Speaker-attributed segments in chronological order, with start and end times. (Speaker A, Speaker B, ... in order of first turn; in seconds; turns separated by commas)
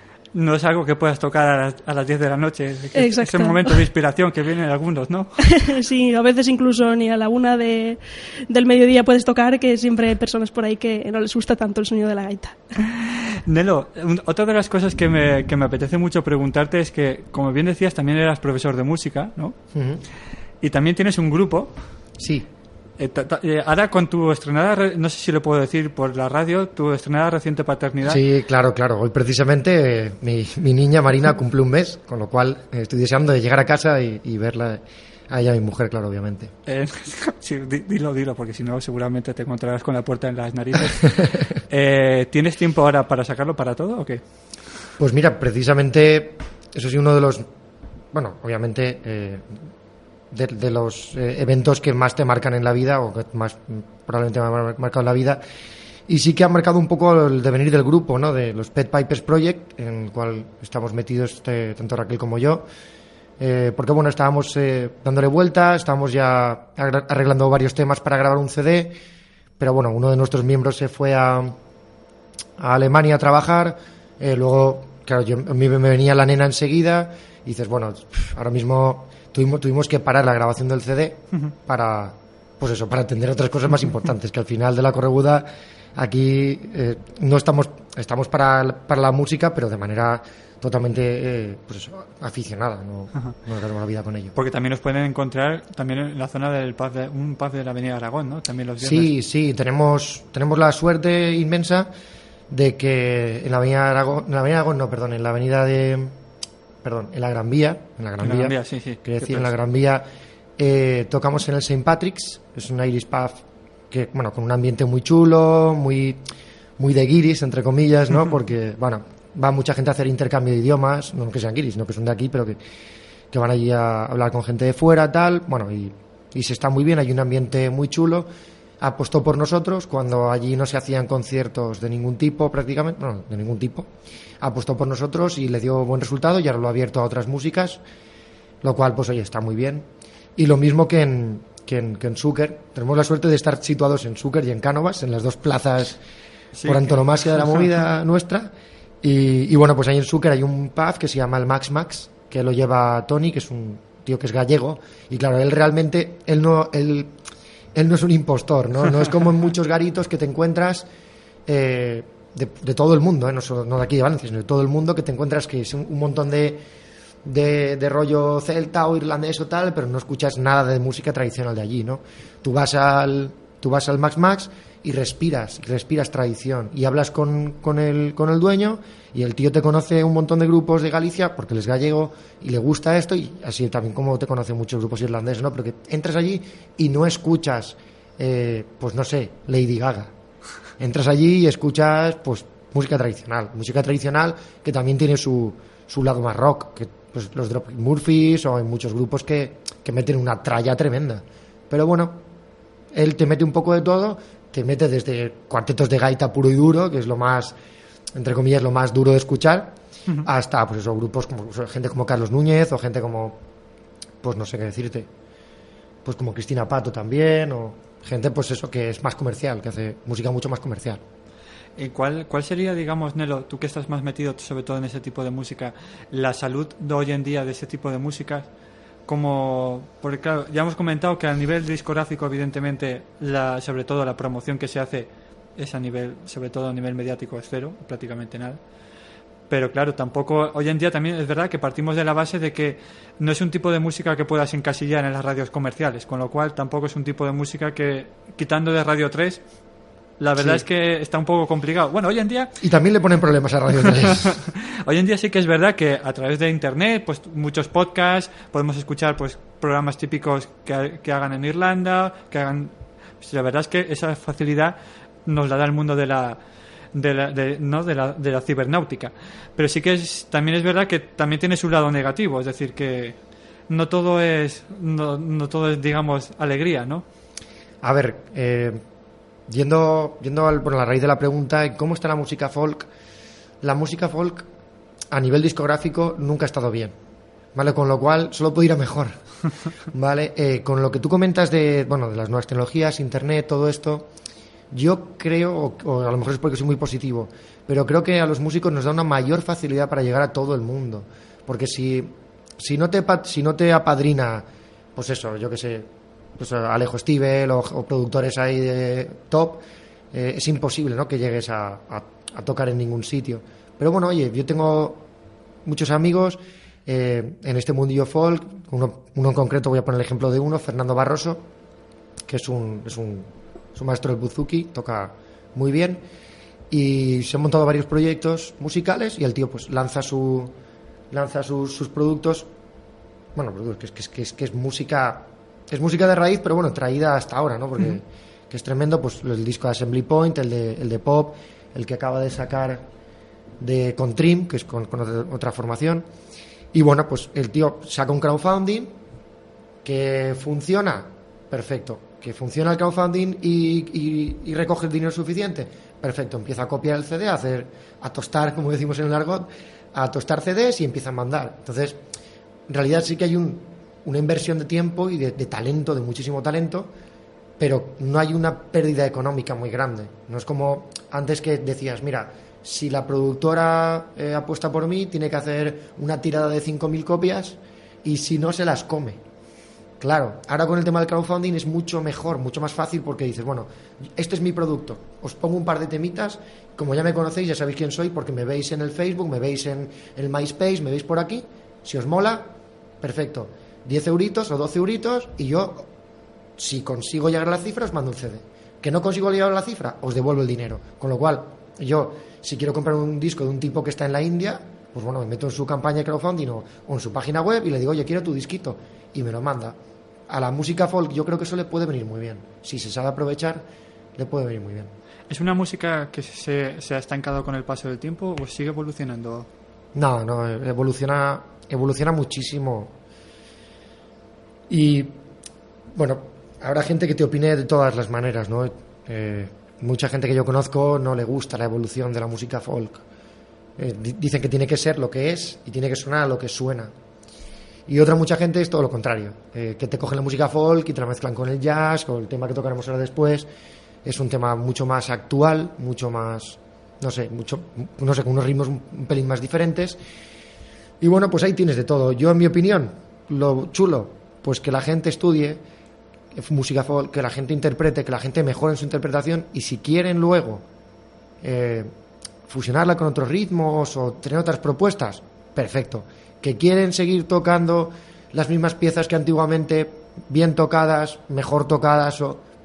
Speaker A: 0.3-5.4, Speaker B: 3.0-3.7, Speaker B: 5.5-12.6, Speaker A: 12.8-19.6, Speaker C: 19.7-20.0, Speaker A: 20.6-21.8, Speaker C: 22.2-22.5, Speaker A: 23.0-28.2, Speaker C: 28.0-36.5, Speaker A: 36.7-44.2, Speaker C: 45.0-47.5, Speaker C: 48.1-49.5, Speaker C: 50.3-55.4, Speaker C: 56.1-62.6, Speaker C: 63.4-69.0, Speaker C: 69.6-71.6, Speaker C: 72.6-94.3, Speaker A: 94.3-99.1, Speaker C: 98.8-101.9, Speaker C: 102.5-106.2, Speaker C: 106.8-110.0, Speaker A: 108.2-109.5, Speaker C: 110.6-116.2, Speaker C: 116.8-122.6, Speaker C: 123.3-128.3, Speaker C: 128.8-133.9, Speaker C: 134.4-137.8, Speaker C: 138.6-146.0, Speaker A: 146.6-147.6, Speaker C: 146.6-157.1, Speaker C: 157.7-160.9, Speaker C: 161.5-166.6, Speaker C: 167.2-190.1, Speaker C: 190.8-202.2, Speaker C: 202.9-207.6, Speaker C: 208.2-213.4, Speaker C: 214.2-215.1, Speaker C: 216.1-221.0, Speaker A: 221.8-228.5, Speaker A: 229.1-238.6, Speaker A: 239.5-249.4, Speaker A: 250.2-252.5, Speaker C: 250.4-250.6, Speaker C: 252.6-254.4, Speaker A: 254.2-266.4, Speaker A: 266.9-273.2, Speaker A: 273.7-277.1, Speaker C: 277.8-278.8, Speaker C: 279.5-282.9, Speaker C: 283.6-284.5, Speaker C: 285.1-286.9, Speaker C: 287.6-289.2, Speaker C: 289.9-294.1, Speaker C: 294.7-315.1, Speaker C: 315.6-321.5, Speaker C: 322.3-326.0, Speaker C: 326.7-330.5, Speaker C: 331.1-332.5, Speaker C: 333.4-342.8, Speaker C: 343.6-346.1, Speaker C: 346.7-348.9, Speaker C: 349.8-362.0, Speaker C: 362.7-366.9, Speaker C: 367.6-379.2, Speaker C: 380.0-392.5, Speaker C: 393.0-395.9, Speaker C: 396.6-409.8, Speaker C: 410.3-413.6, Speaker C: 414.2-414.9, Speaker A: 415.3-419.5, Speaker C: 419.9-423.0, Speaker C: 424.7-425.2, Speaker C: 425.9-433.0, Speaker C: 433.8-436.9, Speaker C: 437.9-443.5, Speaker C: 444.0-450.0, Speaker C: 451.0-455.6, Speaker C: 456.3-460.6, Speaker C: 461.4-461.9, Speaker C: 462.5-472.4